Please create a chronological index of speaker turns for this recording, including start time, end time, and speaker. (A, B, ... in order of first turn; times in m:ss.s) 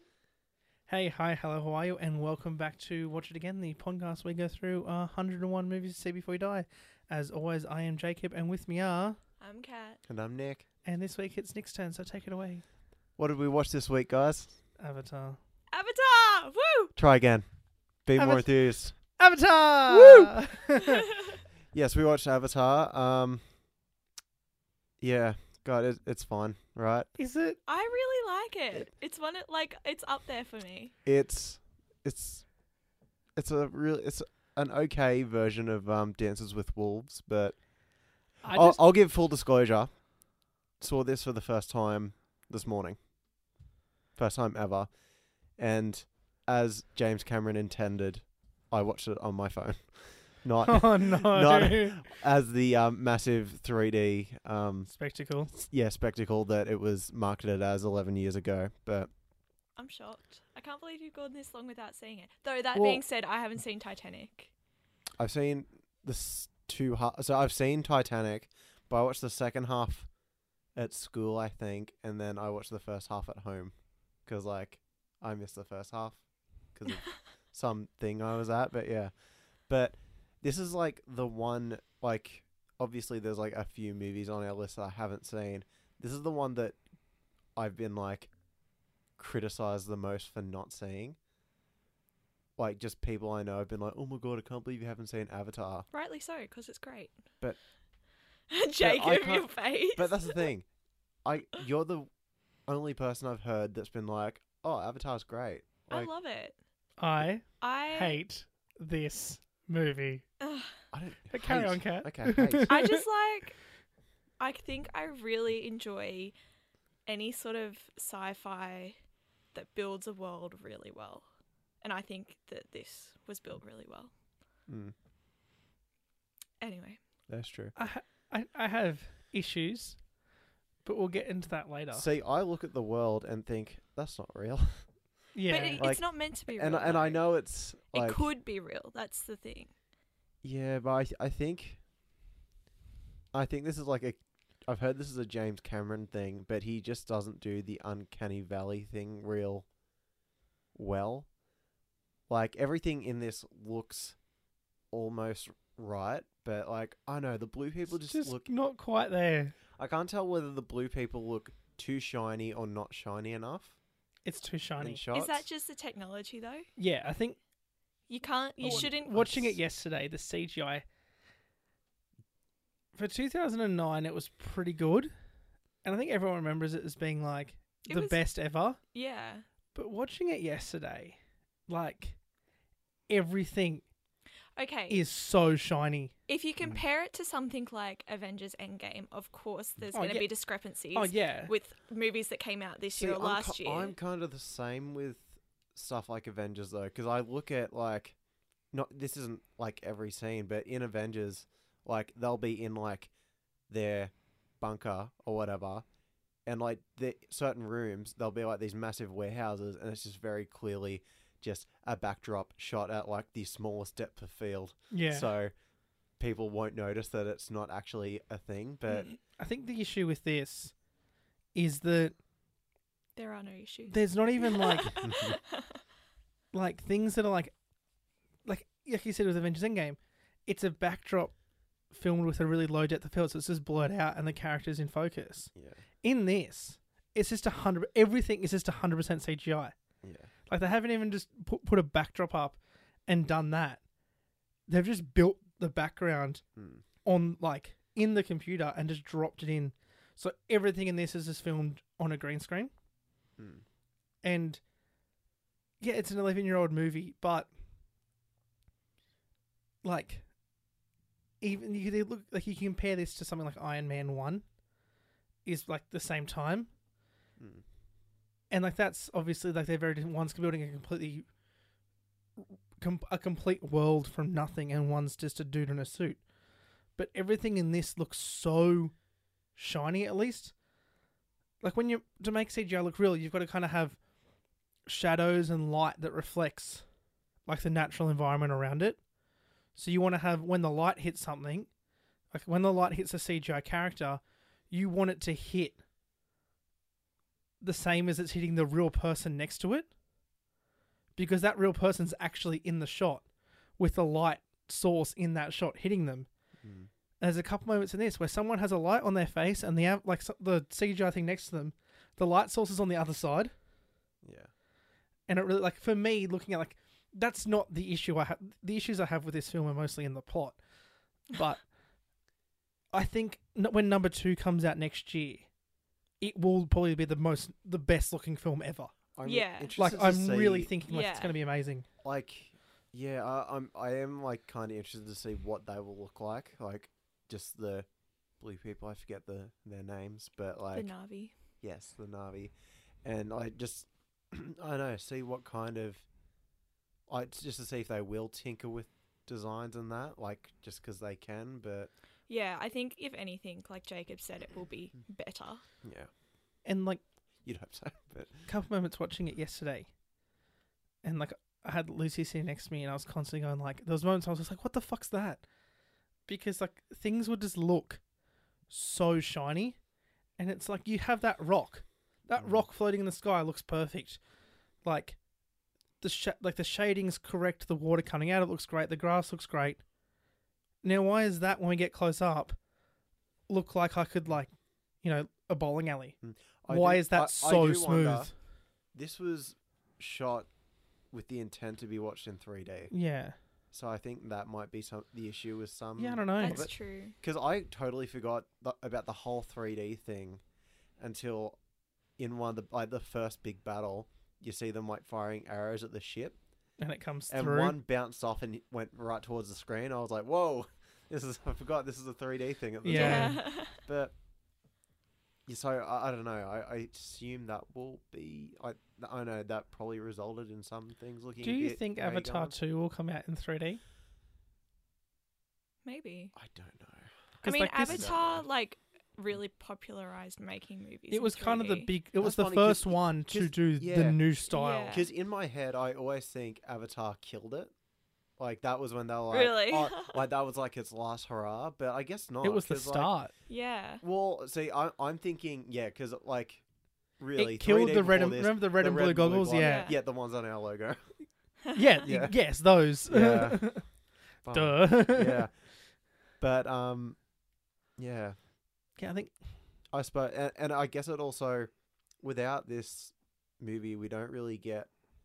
0:00.9-0:09.2 A
0:09.4-0:10.0 B
0:10.1-0:10.6 C
0:10.8-0:12.6 A
0:13.2-0:14.6 C
0:14.8-0:15.4 A
0:15.7-0:16.9 B
0:17.0-0:17.5 C
0:18.0-0:19.0 C
0:18.2-0:21.1 A
0:19.9-0:20.3 C
0:21.7-0:23.4 C
0:25.0-0:27.1 C
0:27.2-0:27.6 A
0:27.7-0:30.9 B
0:31.0-0:32.5 C
0:33.4-0:37.6 C
0:38.4-0:38.8 A
0:38.5-0:40.0 C
0:40.8-0:43.0 C
0:44.2-0:44.9 C
0:45.6-0:54.9 C
0:50.6-0:52.1 A
0:54.9-0:55.5 A
0:55.5-0:59.1 C
0:59.8-1:04.5 B
1:02.8-1:03.0 C
1:05.2-1:10.1 C
1:10.8-1:19.2 C
1:19.7-1:26.8 C
1:27.6-1:28.3 C
1:29.2-1:31.2 C
1:32.6-1:35.9 C
1:35.9-1:37.2 B
1:38.5-1:40.5 B
1:38.8-1:40.7 C
1:41.2-1:42.1 C
1:42.7-1:46.1 C
1:45.9-1:46.6 B
1:47.0-1:50.2 A
1:47.6-1:48.2 B
1:50.4-1:50.8 B
1:50.9-1:52.9 C
1:51.3-1:53.0 A
1:52.7-1:53.6 B
1:54.4-1:56.4 B
1:57.1-1:59.0 B
1:59.5-2:01.3 B
2:01.8-2:04.1 B
2:04.7-2:05.0 C
2:06.6-2:07.0 B
2:07.3-2:07.7 C
2:07.8-2:10.0 A
2:10.8-2:12.1 A
2:11.9-2:14.9 C
2:15.3-2:15.8 A
2:15.5-2:17.3 B
2:15.8-2:18.3 C
2:17.9-2:19.7 B
2:20.4-2:21.8 C
2:23.3-2:29.7 C
2:30.8-2:31.3 C
2:32.3-2:34.2 C
2:34.9-2:38.5 C
2:37.9-2:39.6 A
2:39.8-2:43.8 C
2:44.2-2:45.0 A
2:44.8-2:45.4 C
2:45.1-2:46.7 B
2:46.8-2:47.4 A
2:48.1-2:49.5 B
2:48.6-2:49.6 C
2:48.6-2:50.8 A
2:53.0-2:55.1 A
2:55.8-2:58.8 A
2:57.9-2:58.2 B
2:58.9-2:59.4 B
2:59.7-3:02.2 A
3:03.1-3:03.8 A
3:04.6-3:05.0 B
3:04.9-3:06.1 A
3:06.3-3:14.0 B
3:09.9-3:10.3 A
3:10.9-3:11.5 A
3:12.9-3:18.2 C
3:18.7-3:23.1 C
3:23.7-3:25.8 C
3:26.5-3:35.5 C
3:34.9-3:35.3 A
3:36.2-3:39.1 C
3:38.9-3:39.2 B
3:39.4-3:40.7 A
3:41.6-3:42.2 A
3:43.2-3:45.8 B
3:43.9-3:45.0 A
3:45.0-3:45.4 C
3:46.5-3:47.5 A
3:48.4-3:51.3 A
3:51.9-3:59.8 A
3:55.6-3:55.8 C
4:00.0-4:00.3 C
4:00.5-4:03.8 A
4:04.7-4:06.4 A
4:06.6-4:06.8 C
4:07.0-4:12.7 A
4:13.4-4:13.6 C
4:14.2-4:14.6 A
4:15.8-4:17.5 A
4:19.8-4:20.3 A
4:21.4-4:24.4 A
4:25.4-4:26.7 A
4:27.4-4:27.6 C
4:28.5-4:31.2 A
4:32.4-4:36.2 A
4:37.0-4:38.9 A
4:39.6-4:40.5 A
4:41.6-4:44.0 A
4:44.9-4:46.8 A
4:47.5-4:49.0 A
4:49.8-4:51.7 A
4:52.3-4:55.8 A
4:57.6-4:59.9 A
5:01.2-5:03.3 A
5:03.8-5:06.3 A
5:06.6-5:06.9 C
5:07.2-5:13.5 A
5:14.2-5:14.5 C
5:15.3-5:20.6 A
5:21.3-5:21.6 A
5:22.9-5:25.5 A
5:26.2-5:28.9 A
5:29.2-5:30.7 C
5:29.2-5:29.7 B
5:29.8-5:31.9 A
5:30.9-5:31.4 B
5:32.0-5:37.9 C
5:38.4-5:40.9 C
5:40.7-5:41.3 B
5:41.6-5:42.5 C
5:43.0-5:46.0 C
5:47.1-5:51.9 C
5:52.3-5:55.6 B
5:55.8-5:56.1 C
5:56.6-5:57.0 A
5:57.4-5:58.5 C
5:58.5-5:59.9 A
6:01.0-6:05.4 A
6:06.3-6:08.0 A
6:08.7-6:09.8 A
6:10.4-6:14.2 A
6:12.4-6:12.6 C
6:14.8-6:15.2 A
6:16.0-6:19.8 A
6:20.8-6:22.6 A
6:23.5-6:28.3 A
6:26.2-6:28.3 C
6:28.9-6:30.5 C
6:31.1-6:32.9 C
6:32.9-6:33.4 A
6:33.7-6:40.4 C
6:36.0-6:36.6 A
6:36.4-6:37.2 B
6:41.0-6:41.6 C
6:42.2-6:46.4 C
6:46.8-6:47.8 A
6:47.3-6:54.2 C
6:52.8-6:53.4 A
6:52.9-6:53.8 B
6:55.5-7:02.6 C
7:01.4-7:03.8 A
7:05.8-7:06.3 B
7:06.4-7:07.1 C
7:07.4-7:08.1 A
7:07.4-7:11.9 B
7:07.8-7:08.4 C
7:11.1-7:15.0 A
7:12.2-7:14.2 C
7:14.5-7:15.1 B
7:14.9-7:17.7 C
7:18.4-7:23.2 C
7:19.3-7:20.2 B
7:22.4-7:23.3 A
7:23.5-7:24.0 B
7:24.0-7:26.6 C
7:27.2-7:31.1 C
7:27.4-7:29.9 A
7:29.6-7:30.0 B
7:31.6-7:32.0 B
7:31.7-7:33.9 A
7:32.0-7:33.9 C
7:34.4-7:35.7 C
7:34.5-7:35.4 A
7:36.3-7:37.2 C
7:38.0-7:38.4 C
7:39.0-7:39.3 A
7:39.9-7:44.9 C